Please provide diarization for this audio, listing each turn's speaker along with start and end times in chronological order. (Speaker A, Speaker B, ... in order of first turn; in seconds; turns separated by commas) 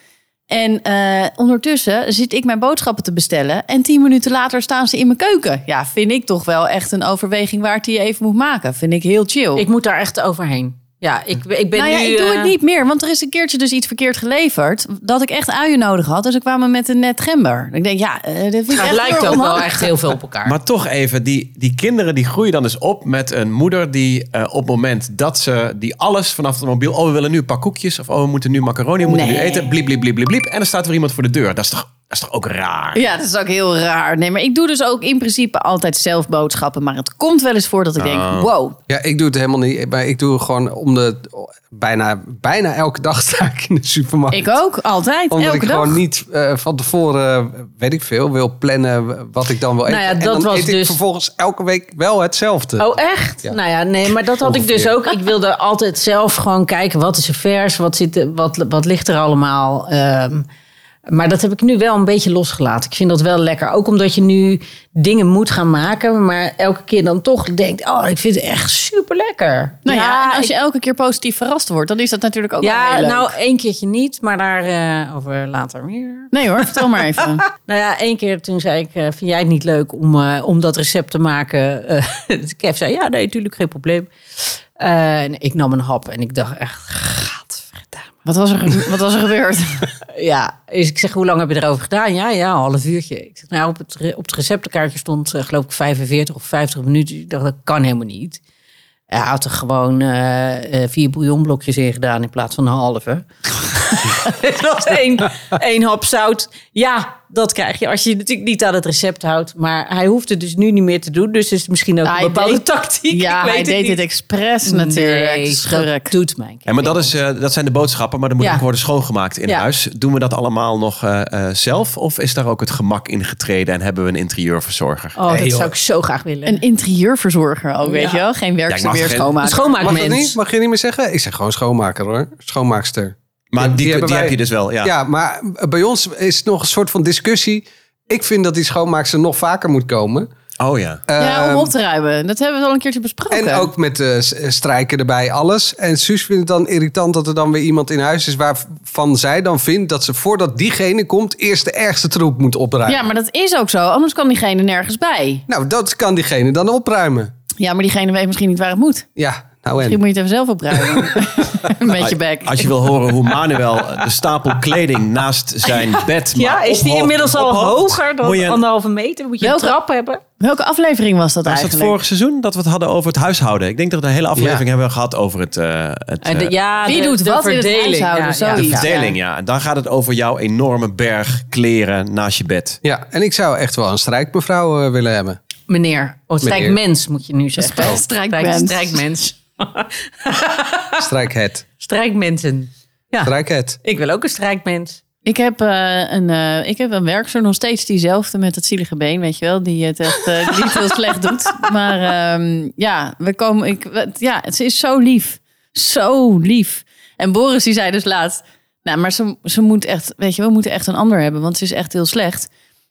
Speaker A: 0.5-9.7, Speaker B: 9.6-12.5, Speaker A: 11.8-20.1, Speaker B: 18.7-20.6, Speaker C: 20.4-33.0, Speaker A: 29.1-29.7, Speaker A: 33.0-38.8, Speaker C: 38.0-38.5, Speaker D: 38.9-44.5, Speaker A: 44.3-46.0, Speaker D: 45.3-52.9, Speaker B: 49.9-51.0, Speaker B: 52.8-60.5, Speaker D: 54.4-55.0, Speaker B: 61.1-70.5, Speaker A: 69.8-73.3, Speaker B: 72.6-88.2, Speaker A: 76.3-77.4, Speaker A: 88.2-89.9, Speaker B: 90.1-98.4, Speaker B: 99.1-114.0, Speaker A: 112.0-116.1, Speaker B: 114.7-117.1, Speaker C: 116.7-125.2, Speaker B: 125.2-126.6, Speaker D: 125.3-125.8, Speaker A: 126.5-130.1, Speaker B: 127.8-128.2, Speaker C: 128.7-129.3, Speaker B: 129.4-130.4, Speaker D: 129.8-140.3, Speaker C: 133.5-134.9, Speaker C: 140.6-141.0, Speaker D: 141.1-141.7, Speaker A: 141.2-143.7, Speaker D: 143.3-153.1, Speaker A: 152.9-155.4, Speaker D: 155.5-157.3, Speaker A: 157.6-159.1, Speaker D: 159.2-160.0, Speaker A: 159.8-162.7, Speaker C: 162.0-168.6, Speaker B: 165.7-170.2, Speaker A: 169.4-169.8, Speaker A: 170.4-171.9, Speaker C: 171.4-176.5, Speaker D: 174.4-174.6, Speaker B: 176.2-178.9, Speaker A: 176.8-179.2, Speaker C: 178.5-182.8, Speaker D: 182.8-185.4, Speaker B: 185.7-191.1, Speaker D: 186.4-186.8, Speaker A: 187.6-189.1, Speaker D: 191.0-191.7, Speaker B: 191.8-195.0, Speaker D: 193.2-193.8, Speaker A: 195.2-212.5